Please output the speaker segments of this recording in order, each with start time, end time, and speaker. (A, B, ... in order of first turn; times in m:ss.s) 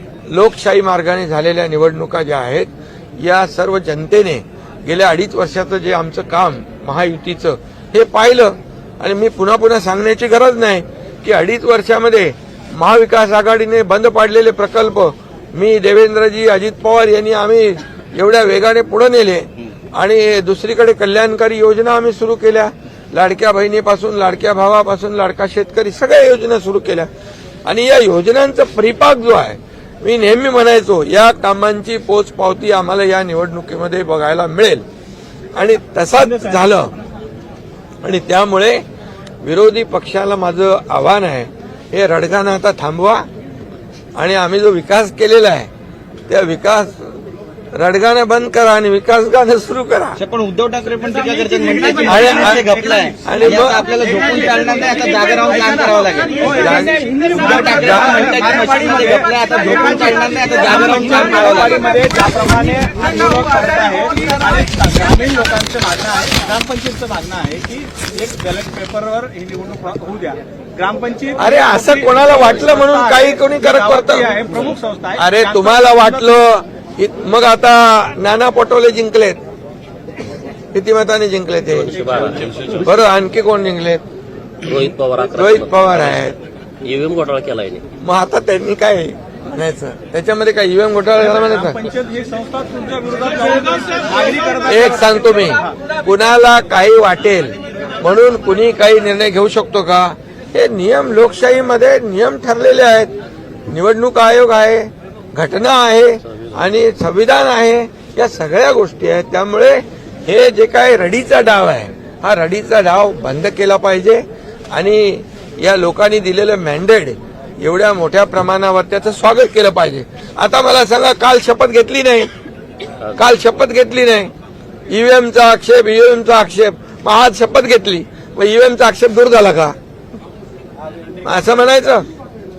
0:00.3-0:27.1 A
0:27.6-0:34.8 A
0:35.6-0:37.0 A
0:38.0-0:38.8 A
0:39.4-0:43.3 A
0:44.2-0:45.7 A
0:46.3-0:47.2 A
0:47.8-0:50.2 A
0:50.2-1:02.0 B
0:52.0-0:52.6 A
0:53.2-0:53.8 A
0:56.5-0:57.1 A
0:57.7-0:58.2 A
0:58.0-0:58.8 C
1:00.7-1:11.7 C
1:11.4-1:14.6 A
1:12.7-1:13.0 C
1:13.9-1:16.0 C
1:15.2-1:19.4 A
1:20.7-1:22.1 A
1:22.0-1:22.8 D
1:22.8-1:24.0 A
1:24.6-1:26.2 D
1:25.3-1:26.4 A
1:26.8-1:27.8 D
1:28.0-1:31.9 A
1:31.7-1:34.8 C
1:34.6-1:43.1 A
1:43.7-2:02.3 A
2:03.1-2:04.3 A
2:04.9-2:09.8 A
2:11.2-2:12.1 A